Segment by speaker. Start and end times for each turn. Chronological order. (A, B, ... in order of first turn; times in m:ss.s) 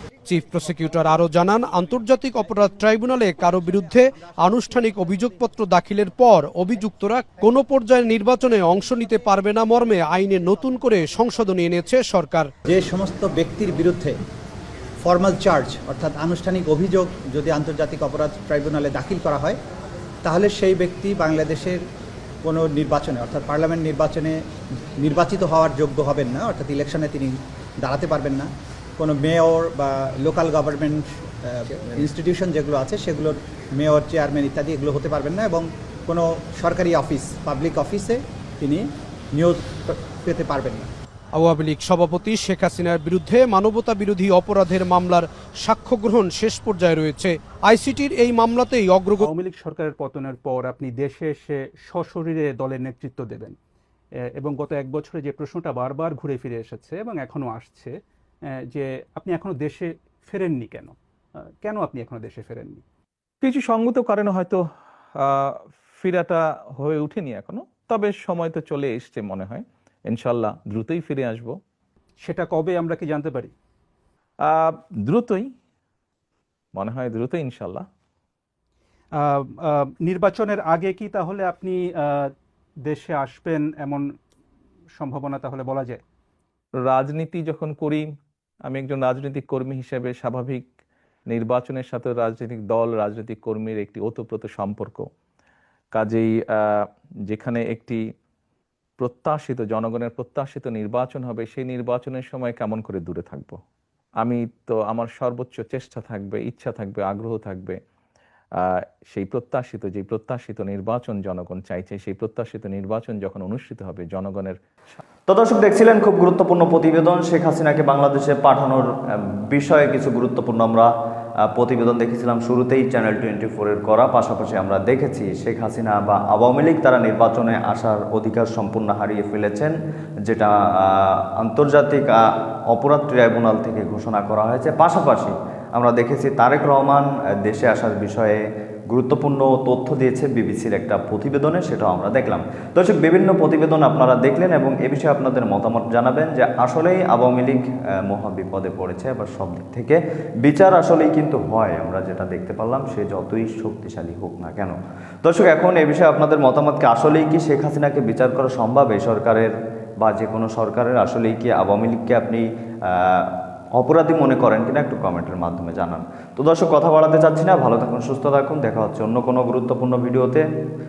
0:00.3-0:12.5 A
0:03.5-0:05.1 B
0:12.7-0:14.2 B
0:15.0-0:19.6 B
0:20.2-0:21.8 B
0:22.4-0:24.4 B
0:25.0-0:40.9 B
0:41.4-0:49.3 A
0:49.2-0:53.6 C
0:54.3-0:58.0 C
0:58.7-1:01.0 C
1:01.6-1:02.8 C
1:03.4-1:04.6 D
1:05.2-1:11.6 D
1:12.2-1:13.5 C
1:14.4-1:15.5 D
1:16.7-1:17.9 D
1:19.2-1:22.3 C
1:22.8-1:24.1 C
1:25.0-1:26.0 C
1:26.8-1:28.1 D
1:28.7-1:30.6 D
1:31.3-1:35.1 D
1:35.9-1:38.0 D
1:39.0-1:43.6 D
1:44.2-1:47.8 D
1:48.6-1:54.6 D
1:55.3-1:58.9 E
1:59.5-2:00.9 E
2:01.5-2:09.7 E
2:10.3-2:50.4 E